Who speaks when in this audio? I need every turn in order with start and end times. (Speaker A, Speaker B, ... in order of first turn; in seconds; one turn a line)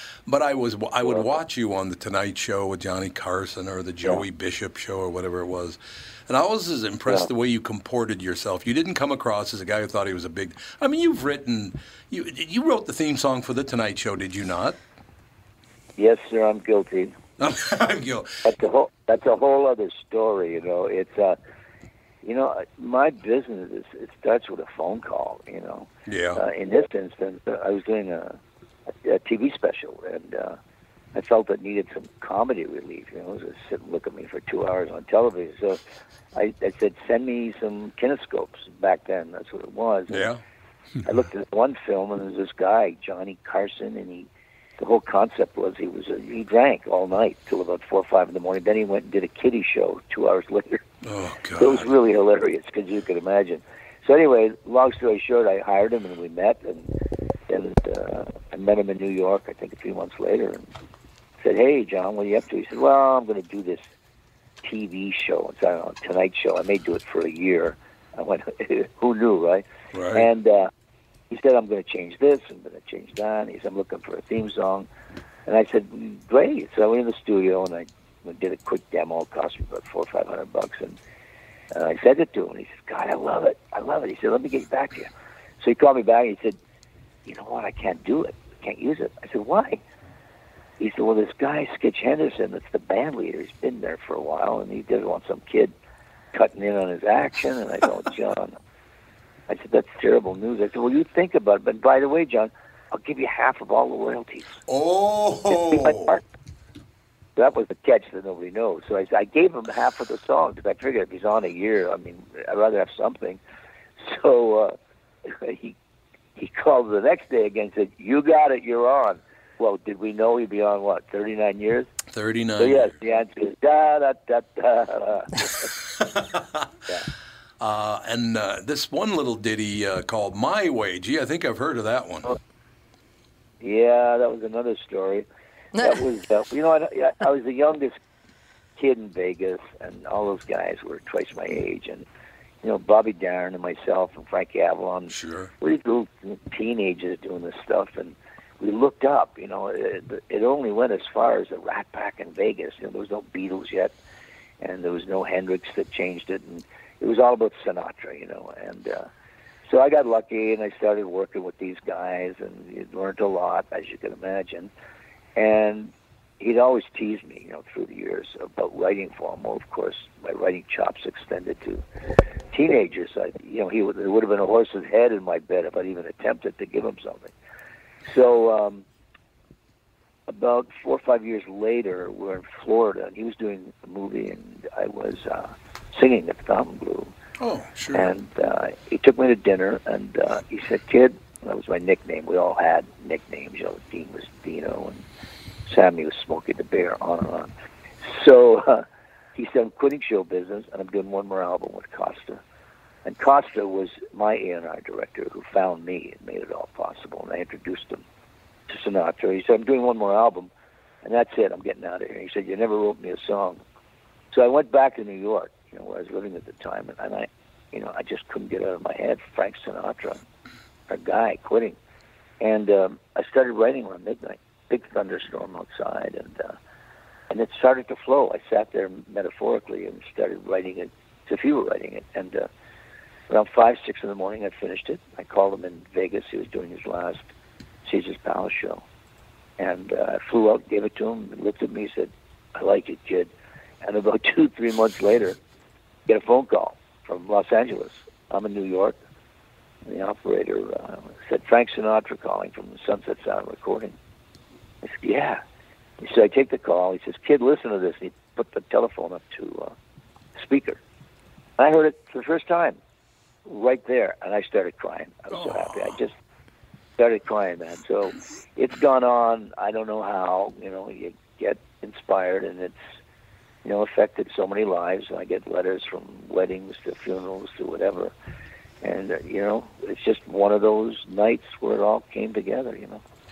Speaker A: 0.3-14.8
Speaker B: 16.0-17.1
Speaker A: 17.4-18.4
Speaker B: 18.4-21.4
Speaker B: 22.2-28.4
Speaker A: 26.1-26.4
Speaker B: 29.0-30.6
Speaker B: 31.1-35.8
Speaker B: 36.4-40.3
Speaker A: 40.1-40.4
Speaker B: 41.0-44.3
Speaker B: 44.8-50.8
Speaker A: 51.0-51.9
Speaker B: 51.6-56.9
Speaker B: 57.5-60.7
Speaker B: 61.4-63.8
Speaker B: 64.6-70.7
Speaker A: 69.9-70.3
Speaker B: 71.3-74.9
Speaker B: 75.5-81.0
Speaker B: 81.7-86.6
Speaker B: 87.3-89.8
Speaker B: 90.8-95.7
Speaker B: 96.3-98.5
Speaker B: 99.5-104.6
Speaker A: 104.7-106.2
Speaker B: 105.5-106.2
Speaker B: 107.4-113.4
Speaker B: 114.0-115.8
Speaker B: 116.4-121.9
Speaker A: 122.1-123.0
Speaker B: 122.6-125.7
Speaker A: 126.0-126.7
Speaker A: 127.6-132.3
Speaker B: 133.6-135.3
Speaker B: 135.8-138.0
Speaker B: 138.8-142.1
Speaker B: 142.6-153.9
Speaker A: 145.1-145.5
Speaker B: 154.6-159.1
Speaker B: 159.7-164.7
Speaker B: 165.4-171.8
Speaker B: 172.5-177.3
Speaker B: 178.1-178.8
Speaker B: 180.3-187.1
Speaker A: 187.4-188.1
Speaker B: 187.9-195.0
Speaker B: 195.7-197.5
Speaker B: 198.0-198.8
Speaker B: 199.4-202.4
Speaker B: 203.1-208.0
Speaker B: 208.7-210.5
Speaker B: 211.0-213.6
Speaker B: 214.3-220.2
Speaker B: 220.9-221.8
Speaker B: 222.4-226.6
Speaker B: 227.3-232.5
Speaker B: 233.3-237.2
Speaker B: 237.8-238.8
Speaker B: 239.6-243.3
Speaker B: 243.8-245.4
Speaker B: 246.1-249.0
Speaker B: 249.9-253.9
Speaker B: 254.8-255.4
Speaker B: 256.0-259.7
Speaker B: 260.4-260.8
Speaker B: 261.6-262.8
Speaker B: 263.5-266.1
Speaker A: 265.3-266.0
Speaker B: 267.0-272.8
Speaker B: 273.6-278.1
Speaker B: 278.8-283.0